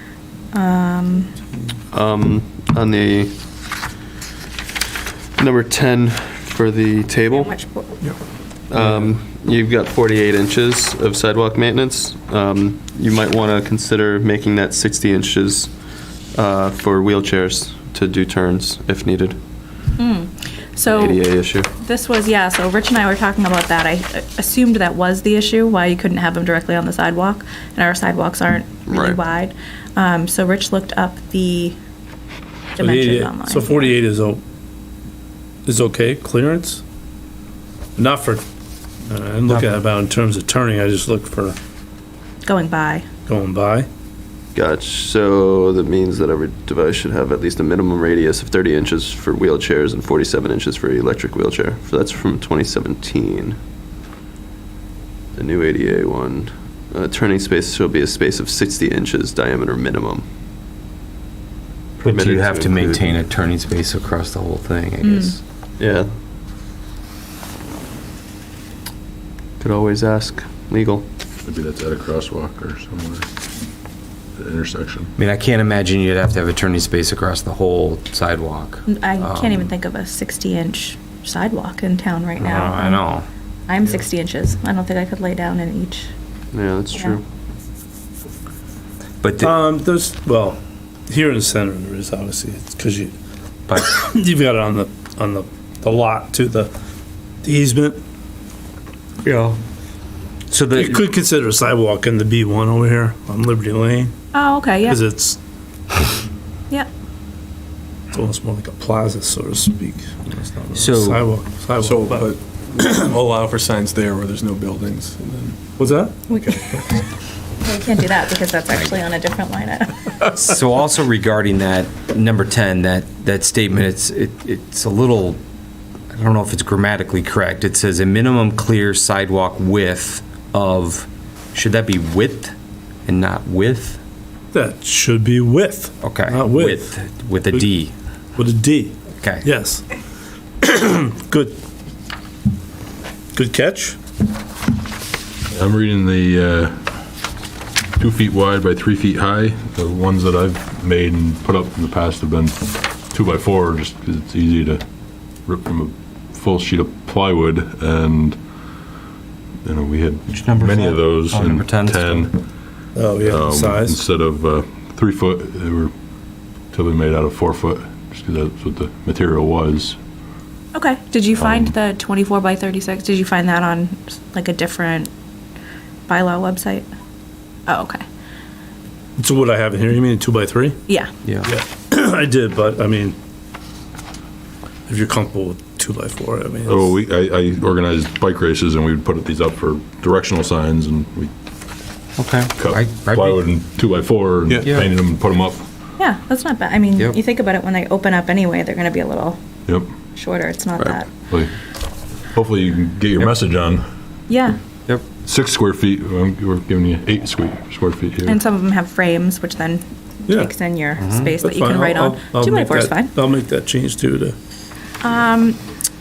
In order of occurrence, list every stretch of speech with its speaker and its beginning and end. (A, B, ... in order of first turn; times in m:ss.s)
0:00.5-0:01.4 A
0:01.9-0:03.4 B
0:05.4-0:07.6 B
0:07.3-0:08.0 A
0:08.7-0:15.8 B
0:16.3-0:19.4 B
0:20.0-0:31.8 A
0:20.9-0:21.7 B
0:28.9-0:29.2 B
0:32.8-0:33.9 A
0:32.8-0:34.4 C
0:35.6-0:36.8 C
0:38.0-0:38.4 C
0:39.1-0:41.6 C
0:42.4-0:43.1 A
0:43.3-0:43.9 C
0:44.6-0:53.6 B
0:55.4-1:00.3 B
1:02.0-1:05.4 D
1:02.0-1:03.1 B
1:05.0-1:05.4 A
1:05.8-1:06.1 B
1:09.6-1:11.1 B
1:11.4-1:13.3 E
1:14.4-1:15.1 E
1:15.2-1:19.7 D
1:18.9-1:23.0 A
1:22.4-1:23.3 D
1:23.7-1:26.1 A
1:26.5-1:27.2 B
1:29.2-1:29.6 D
1:29.4-1:33.2 C
1:33.7-1:36.7 C
1:37.4-1:38.0 C
1:39.2-1:39.6 D
1:40.5-1:41.0 D
1:40.8-1:44.2 C
1:44.3-1:45.0 A
1:44.8-1:45.4 C
1:48.1-1:53.1 C
1:50.7-1:51.2 D
1:51.8-1:57.1 F
1:55.8-1:56.3 C
1:56.3-1:56.9 A
1:57.6-2:00.1 A
2:00.3-2:05.4 D
2:06.1-2:12.5 D
2:13.1-2:14.0 D
2:14.5-2:16.9 C
2:16.0-2:17.9 D
2:18.4-2:19.8 C
2:19.2-2:19.5 D
2:20.6-2:21.6 C
2:23.3-2:24.0 C
2:25.5-2:26.8 E
2:28.0-2:34.8 E
2:35.4-2:38.4 E
2:39.6-2:42.4 E
2:40.3-2:42.3 D
2:43.0-2:44.0 C
2:43.2-2:45.9 E
2:46.7-2:50.0 E
2:50.7-2:55.1 A
2:51.4-2:51.7 E
2:56.1-2:56.9 A
2:57.7-2:58.0 A
2:59.2-3:00.8 C
3:01.4-3:03.2 C
3:04.9-3:07.0 C
3:06.7-3:11.3 E
3:12.2-3:13.5 D
3:12.6-3:15.6 E
3:14.5-3:14.8 F
3:16.0-3:19.4 A
3:19.7-3:19.9 E
3:20.1-3:21.1 A
3:22.3-3:23.8 E
3:24.3-3:24.6 A
3:25.2-3:28.4 E
3:28.2-3:33.1 A
3:30.3-3:30.5 C
3:31.0-3:31.4 D
3:31.4-3:34.4 C
3:35.0-3:35.6 A